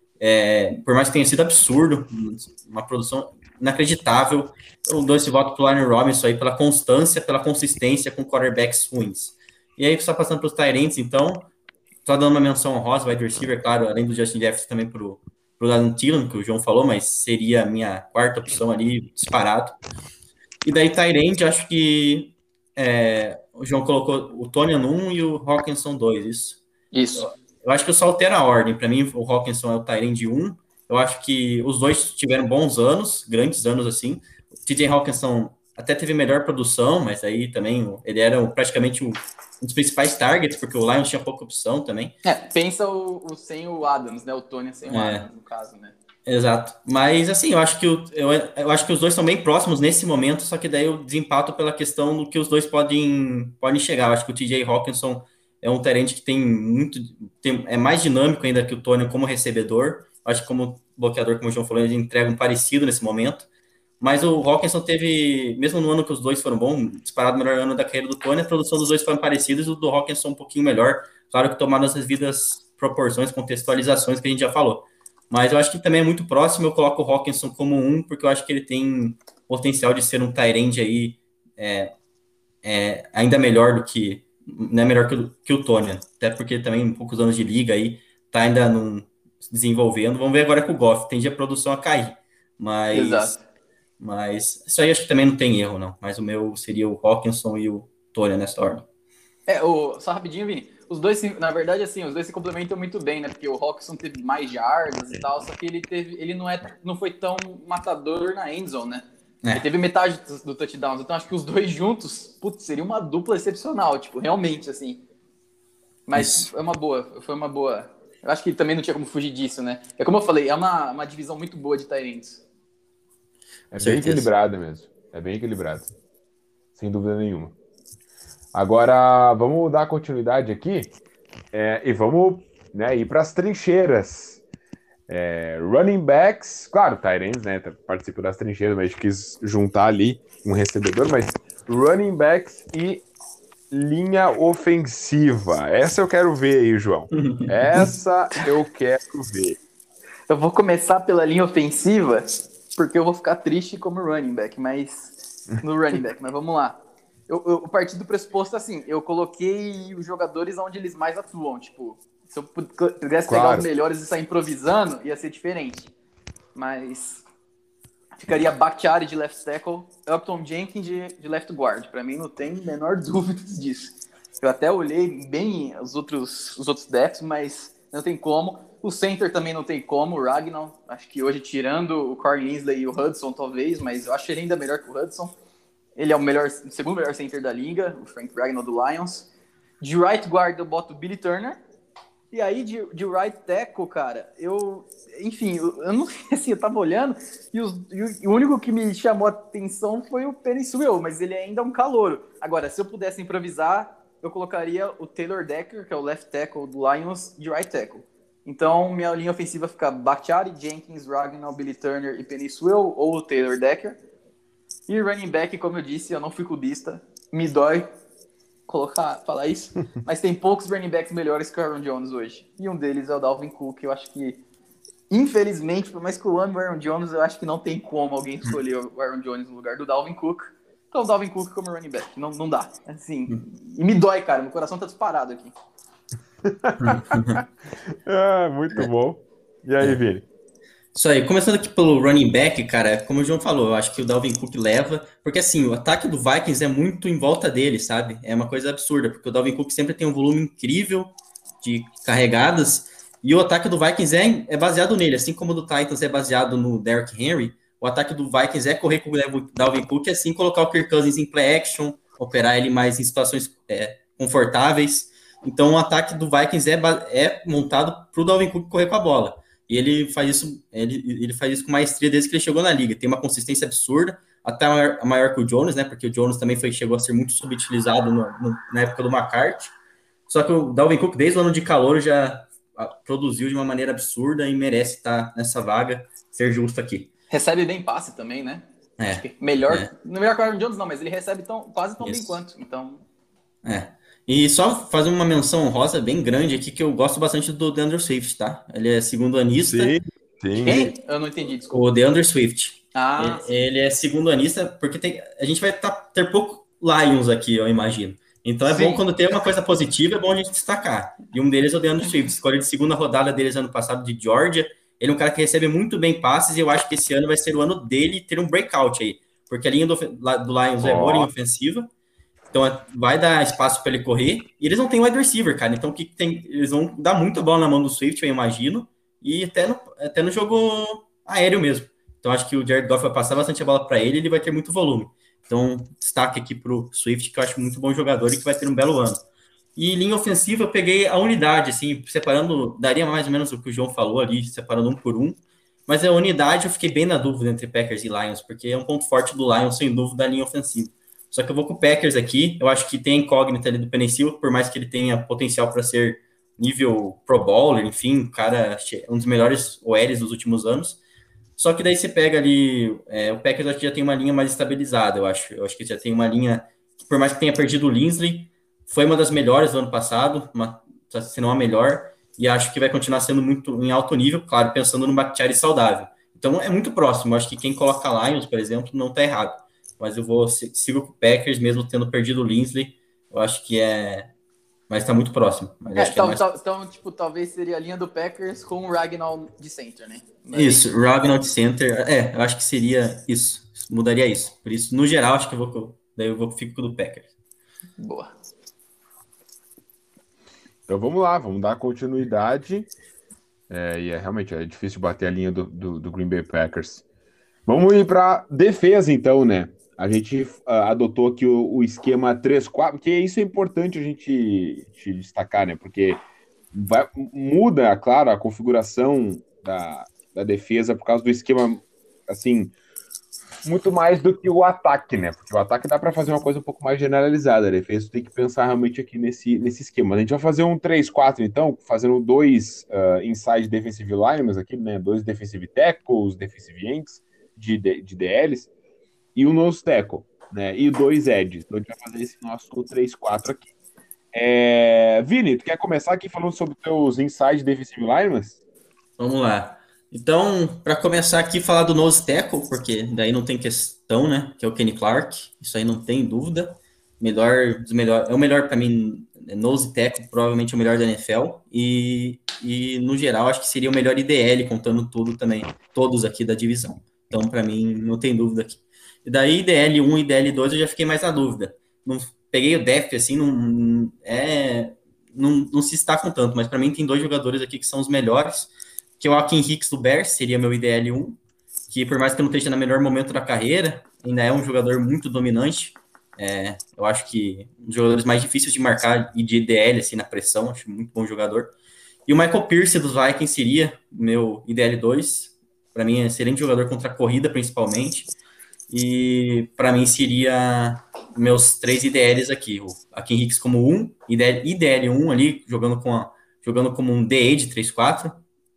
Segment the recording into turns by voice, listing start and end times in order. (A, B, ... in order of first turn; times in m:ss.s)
0:00.2-0:11.5 A
0:12.0-0:19.8 A
0:20.6-0:26.6 A
0:26.9-0:27.3 B
0:27.1-0:42.2 A
0:42.2-0:46.0 B
0:44.9-0:45.3 A
0:46.2-1:03.5 A
1:04.0-1:21.9 A
1:22.6-1:33.3 A
1:32.9-1:33.4 B
1:34.0-1:38.8 A
1:39.5-1:55.0 B
1:56.1-2:02.4 B
1:56.1-1:56.5 A
2:03.7-2:05.9 C
2:03.8-2:04.3 A
2:06.8-2:07.6 C
2:08.5-2:10.9 C
2:11.5-2:14.4 C
2:15.1-2:23.0 C
2:23.7-2:29.6 C
2:27.1-2:27.8 A
2:30.3-2:45.9 B
2:43.3-2:43.7 C
2:46.5-2:47.2 B
2:48.2-3:05.3 B
3:06.0-3:09.3 B
3:09.8-3:11.6 B
3:12.3-3:34.0 B
3:34.9-3:37.9 B
3:38.7-3:44.4 B
3:45.1-3:55.5 B
3:56.4-3:57.2 C
3:56.8-3:57.4 A
3:58.0-4:00.2 C
4:00.9-4:39.7 A
4:40.3-4:47.1 A
4:47.3-4:48.6 B
4:49.0-4:49.9 A
4:49.2-4:53.0 B
4:52.0-4:52.4 A
4:53.6-5:00.0 A
4:59.6-5:00.9 C
5:00.6-5:01.8 B
5:00.6-5:00.9 A
5:01.7-5:21.9 A
5:02.9-5:03.4 B
5:08.6-5:09.0 B
5:20.8-5:21.3 C
5:22.5-5:39.2 A
5:39.8-6:01.0 A
6:01.6-6:24.3 A
6:24.9-6:26.4 A
6:26.0-6:30.9 B
6:30.5-6:37.3 A
6:38.0-6:38.3 B
6:40.9-6:42.9 C
6:43.7-6:47.0 C
6:47.7-7:02.7 C
7:03.6-7:18.7 C
7:19.3-7:23.7 C
7:24.3-7:28.6 C
7:29.2-8:01.4 A
8:01.9-8:11.7 A
8:12.3-8:18.3 A
8:18.9-8:28.4 A